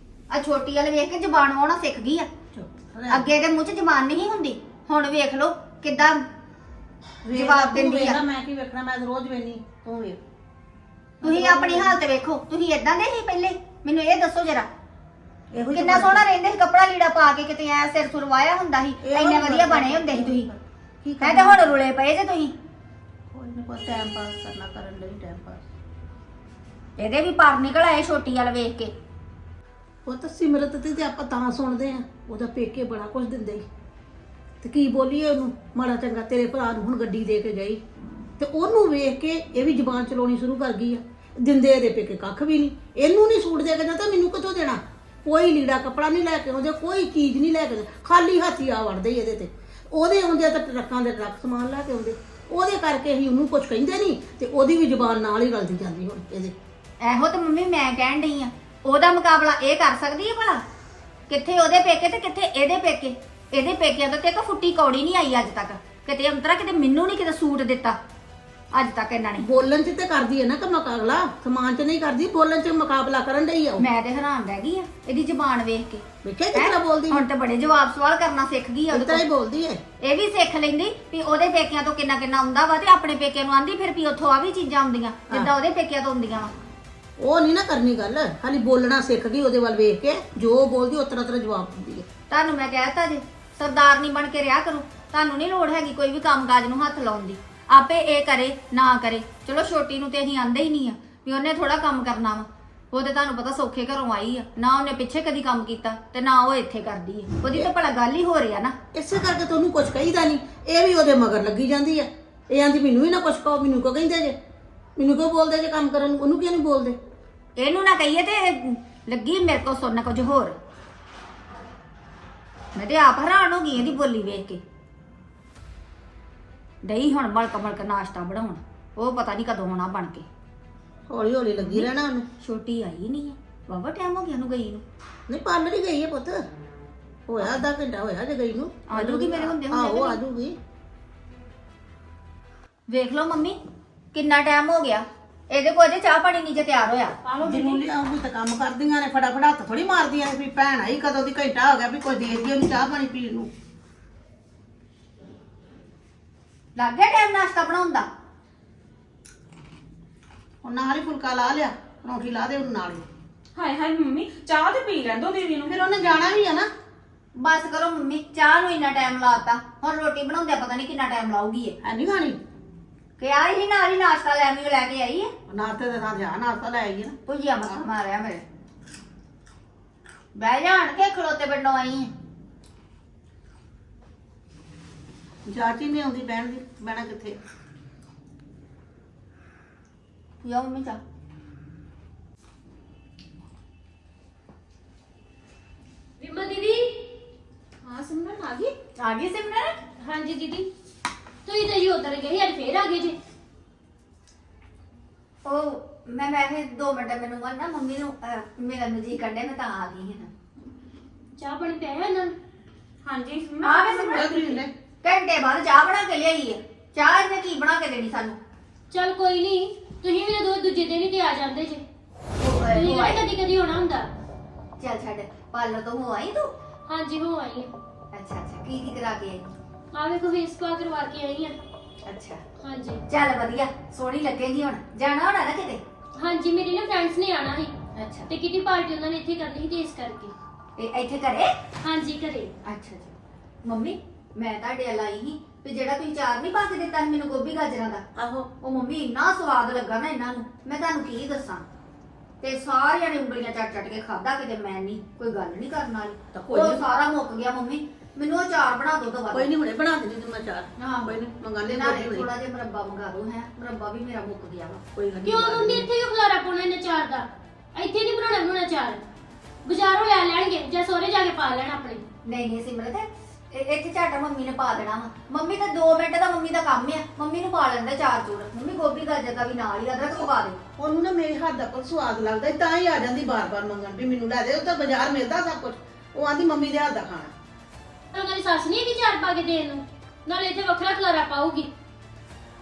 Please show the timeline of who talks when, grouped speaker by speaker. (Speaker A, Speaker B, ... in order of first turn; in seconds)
Speaker A: 0.3-2.3, 3.1-6.2, 7.3-8.2, 11.2-14.7, 15.7-20.5, 21.2-22.5, 27.0-28.9, 57.0-60.6, 61.3-68.0, 68.7-69.5, 73.8-79.2, 80.0-86.5, 92.3-108.8, 117.6-120.5, 122.8-124.6, 126.8-130.3, 131.6-134.8, 138.9-140.2, 142.9-143.6, 144.1-147.2, 156.7-158.1, 167.4-171.8, 173.2-175.3, 177.3-178.4, 180.3-182.1, 190.4-191.0, 199.0-199.8, 205.4-210.3, 213.6-218.4, 222.4-223.2, 224.8-226.5, 228.1-229.4, 232.1-232.4, 233.1-235.8, 237.9-238.3, 240.8-241.5, 242.6-248.0, 248.6-251.6, 252.4-259.5, 260.8-264.8, 272.2-280.6
Speaker B: 2.5-3.3, 7.2-10.2, 11.2-12.0, 15.5-16.2, 19.0-21.8, 23.3-25.6, 30.1-33.6, 34.6-37.8, 38.4-56.6, 69.4-73.8, 76.2-77.2, 78.9-79.8, 87.2-92.0, 108.9-114.4, 115.0-117.0, 131.1-132.3, 135.3-136.4, 137.3-140.6, 147.4-153.5, 160.6-163.1, 165.7-166.7, 171.8-172.4, 175.5-177.2, 185.4-187.4, 214.0-214.7, 248.2-248.5, 256.3-256.8, 259.3-262.3, 264.9-265.9, 280.8-287.3
Speaker C: 147.2-147.8, 163.6-165.8, 197.8-198.7, 213.0-214.2
Speaker D: 196.2-197.1, 200.0-200.7, 201.4-203.2, 211.3-212.3, 218.9-221.8, 222.6-224.1, 226.9-227.7, 229.9-231.6, 232.6-233.0, 236.2-237.7, 238.3-240.3, 241.8-242.5, 265.2-269.0, 269.6-272.0, 288.1-291.7